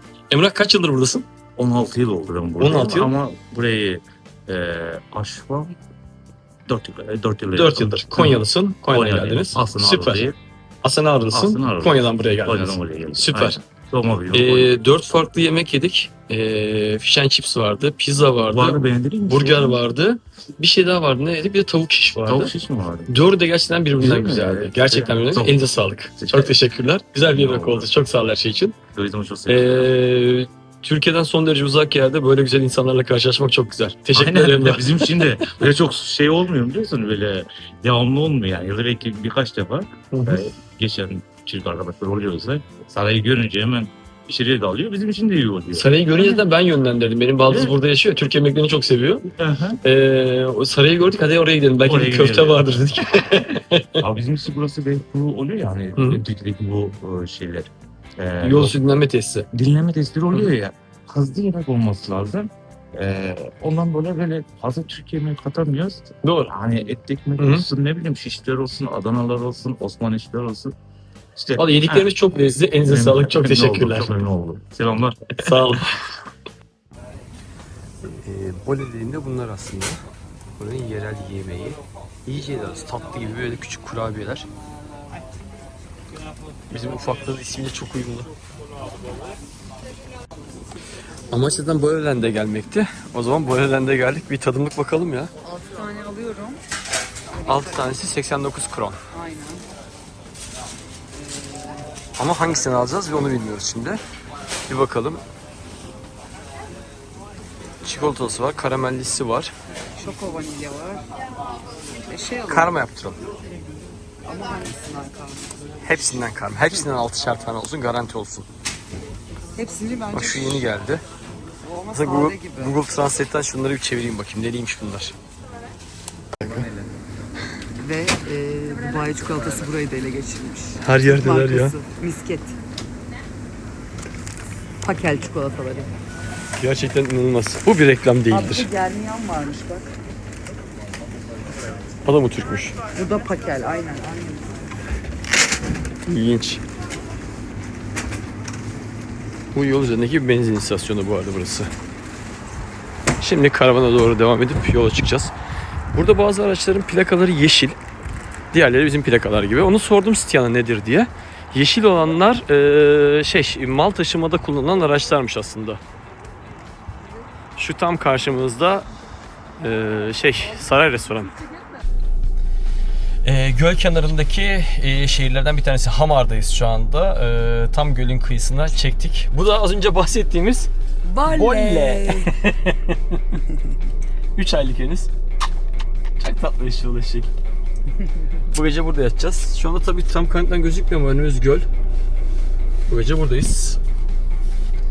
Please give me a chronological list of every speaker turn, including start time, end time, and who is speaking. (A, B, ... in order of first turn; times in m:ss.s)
0:00.3-0:01.2 A
0:01.6-0:05.8 B
0:02.6-0:03.1 A
0:06.7-0:10.4 B
0:07.5-0:10.3 A
0:10.8-0:13.6 A
0:11.3-0:14.8 B
0:14.3-0:22.5 A
0:18.5-0:19.8 B
0:22.2-0:23.1 B
0:23.1-0:28.8 A
0:24.0-0:26.5 B
0:27.3-0:27.9 B
0:28.9-0:29.9 B
0:29.5-0:35.3 A
0:34.1-0:46.4 B
0:40.1-0:40.4 A
0:45.7-0:49.3 A
0:47.4-0:47.8 B
0:49.4-0:49.8 B
0:49.8-0:54.0 A
0:51.8-0:52.8 B
0:54.0-0:58.9 B
0:58.4-0:59.5 A
0:59.5-1:10.7 B
1:06.2-1:06.5 A
1:07.4-1:07.6 A
1:11.3-1:12.1 B
1:11.6-1:14.2 A
1:12.8-1:15.8 B
1:15.4-1:16.2 A
1:18.0-1:20.0 A
1:20.6-1:24.5 A
1:26.7-1:28.3 A
1:31.3-1:35.3 A
1:35.4-1:36.6 C
1:37.4-1:37.6 C
1:37.4-1:39.0 A
1:39.1-1:39.7 C
1:41.1-1:41.9 C
1:42.2-1:44.0 A
1:44.7-1:45.2 A
1:47.8-1:49.5 A
1:49.9-1:51.2 C
1:52.0-1:52.8 C
1:52.4-1:53.2 A
1:54.2-1:55.6 C
1:55.8-1:58.5 A
1:59.5-2:00.6 C
2:00.1-2:01.0 A
2:01.7-2:02.8 C
2:01.9-2:05.1 A
2:06.4-2:06.7 A
2:07.7-2:12.6 C
2:10.8-2:11.8 A
2:14.8-2:15.9 C
2:16.6-2:18.7 A
2:18.3-2:19.9 C
2:22.0-2:22.8 A
2:22.9-2:24.6 C
2:26.0-2:26.6 A
2:29.5-2:31.7 A
2:33.2-2:35.3 A
2:35.9-2:37.8 A
2:38.5-2:45.8 A
2:47.6-2:48.8 A
2:49.6-2:51.3 A
2:53.2-3:00.7 A
3:01.0-3:02.3 C
3:01.2-3:03.4 A
3:04.3-3:05.1 A
3:06.2-3:07.3 A
3:08.4-3:11.7 A
3:12.9-3:13.8 A